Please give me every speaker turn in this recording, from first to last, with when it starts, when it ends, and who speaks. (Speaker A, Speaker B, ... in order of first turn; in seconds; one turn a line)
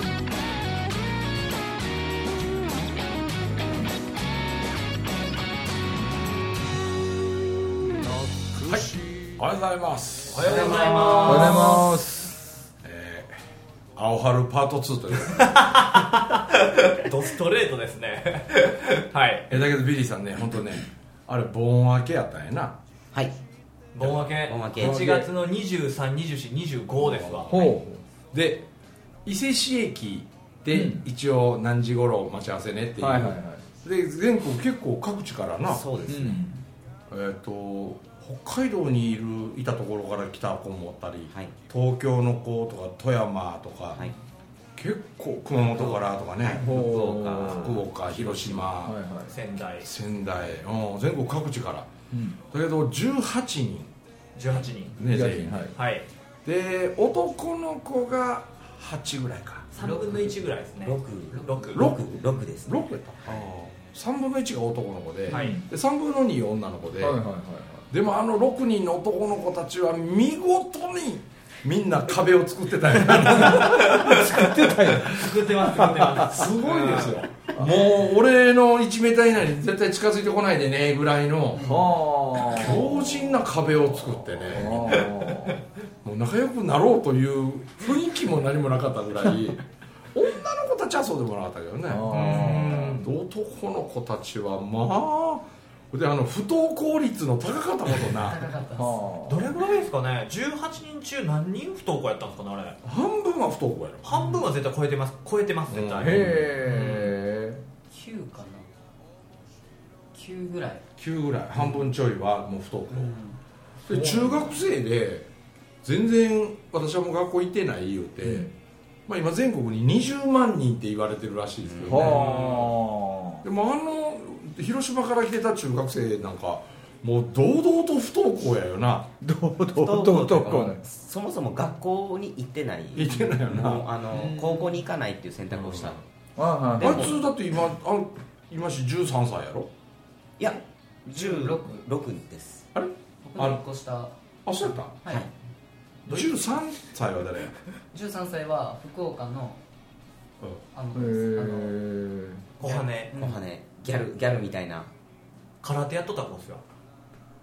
Speaker A: 8.0-9.3
Speaker B: 8.6-10.7
Speaker C: 10.3-12.0
Speaker D: 10.4-11.9
Speaker A: 11.2-12.4
Speaker B: 12.8-13.3
Speaker B: 13.9-15.6
Speaker C: 15.3-19.5
Speaker B: 19.5-22.8
Speaker C: 23.9-27.6
Speaker B: 24.0-25.1
Speaker E: 24.5-25.0
Speaker A: 24.8-25.2
Speaker B: 27.0-27.7
Speaker A: 27.5-28.0
Speaker B: 28.3-28.7
Speaker B: 29.2-35.9
Speaker A: 30.7-31.0
Speaker A: 33.0-33.6
Speaker E: 35.7-36.4
Speaker A: 36.1-36.6
Speaker B: 37.1-44.0
Speaker B: 44.8-46.9
Speaker E: 45.6-48.8
Speaker A: 46.6-47.8
Speaker B: 47.5-49.0
Speaker A: 48.8-49.3
Speaker C: 49.3-49.9
Speaker B: 49.8-51.9
Speaker A: 52.1-52.4
Speaker B: 52.4-53.9
Speaker C: 54.4-55.0
Speaker B: 55.0-55.6
Speaker A: 55.1-55.7
Speaker C: 55.8-56.1
Speaker B: 56.5-59.7
Speaker C: 59.7-61.9
Speaker E: 59.8-62.8
Speaker B: 61.7-67.2
Speaker C: 65.3-65.6
Speaker A: 65.3-65.6
Speaker A: 67.0-67.9
Speaker B: 67.9-74.2
Speaker C: 73.5-77.3
Speaker A: 73.8-75.2
Speaker B: 74.9-75.4
Speaker A: 75.9-76.2
Speaker B: 76.0-81.8
Speaker A: 81.6-83.2
Speaker B: 82.3-85.1
Speaker A: 84.5-85.6
Speaker B: 86.0-98.4
Speaker A: 91.9-92.9
Speaker C: 92.1-93.1
Speaker D: 98.2-99.0
Speaker A: 98.8-99.5
Speaker C: 99.3-102.8
Speaker B: 102.8-104.1
Speaker C: 104.0-107.1
Speaker D: 104.1-104.4
Speaker B: 105.7-106.5
Speaker A: 106.0-107.6
Speaker D: 107.9-108.7
Speaker D: 110.1-110.8
Speaker B: 111.0-113.2
Speaker D: 112.9-113.4
Speaker B: 113.9-115.3
Speaker A: 113.9-114.4
Speaker B: 115.8-118.5
Speaker A: 118.2-118.5
Speaker B: 119.1-122.6
Speaker E: 121.6-122.3
Speaker A: 121.8-123.4
Speaker C: 122.0-122.7
Speaker B: 123.4-129.1
Speaker A: 129.2-130.8
Speaker E: 129.7-136.0
Speaker B: 132.9-133.9
Speaker A: 134.1-134.8
Speaker B: 135.5-136.0
Speaker A: 136.4-137.1
Speaker B: 136.8-139.7
Speaker E: 136.8-137.2
Speaker E: 140.4-142.7
Speaker D: 141.1-141.8
Speaker B: 142.7-143.6
Speaker D: 143.2-144.1
Speaker B: 144.4-145.0
Speaker D: 145.0-145.3
Speaker B: 146.1-147.6
Speaker D: 147.9-149.6
Speaker D: 150.7-151.8
Speaker A: 150.9-152.4
Speaker C: 152.6-153.1
Speaker D: 152.7-153.4
Speaker E: 152.7-154.9
Speaker C: 155.6-156.6